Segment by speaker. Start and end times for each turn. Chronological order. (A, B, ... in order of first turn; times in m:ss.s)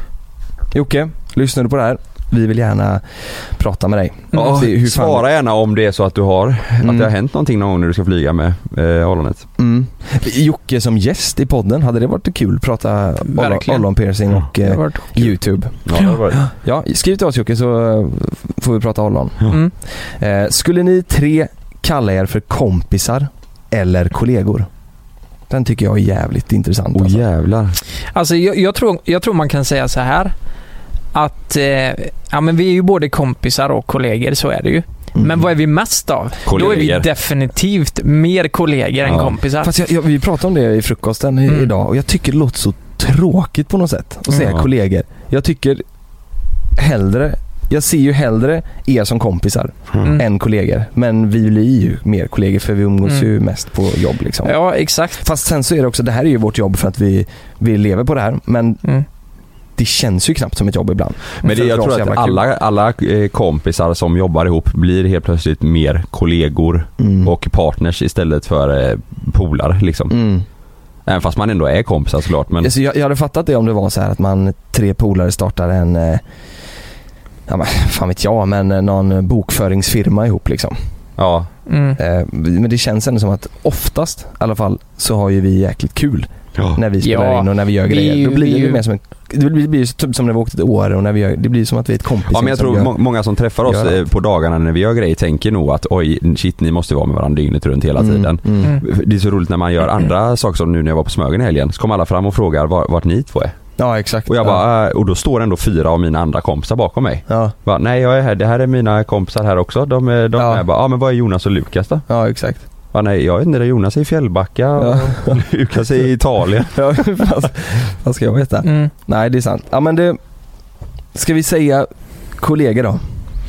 0:00.7-0:05.2 A
0:04.3-0:09.5 B
0:06.8-0:07.1 A
0:09.6-0:24.7 A
0:13.3-0:13.9 C
0:14.4-0:15.3 C
0:15.9-0:16.4 B
0:25.5-0:27.2 A
0:26.9-0:27.8 B
0:28.1-0:30.3 C
0:31.1-0:39.7 C
0:35.2-0:35.5 A
0:36.5-0:37.1 B
0:39.1-0:39.3 B
0:39.6-0:45.8 A
0:46.8-0:54.6 A
0:54.4-0:55.2 C
0:55.2-0:58.8 A
0:59.8-1:02.4 A
1:01.4-1:10.2 B
1:07.0-1:07.3 A
1:10.1-1:10.5 A
1:11.1-1:12.7 B
1:12.6-1:16.2 A
1:17.5-1:20.8 A
1:21.2-1:21.5 B
1:21.7-1:22.0 C
1:22.0-1:33.0 A
1:27.0-1:28.8 C
1:32.3-1:43.6 B
1:33.6-1:34.0 A
1:38.0-1:38.7 A
1:43.8-1:44.6 A
1:44.3-1:52.0 B
1:47.3-1:47.5 A
1:50.4-1:50.6 A
1:52.1-1:52.6 A
1:52.9-1:56.8 B
1:54.8-1:55.5 A
1:56.7-2:00.2 A
1:58.6-1:58.9 C
2:01.1-2:03.2 A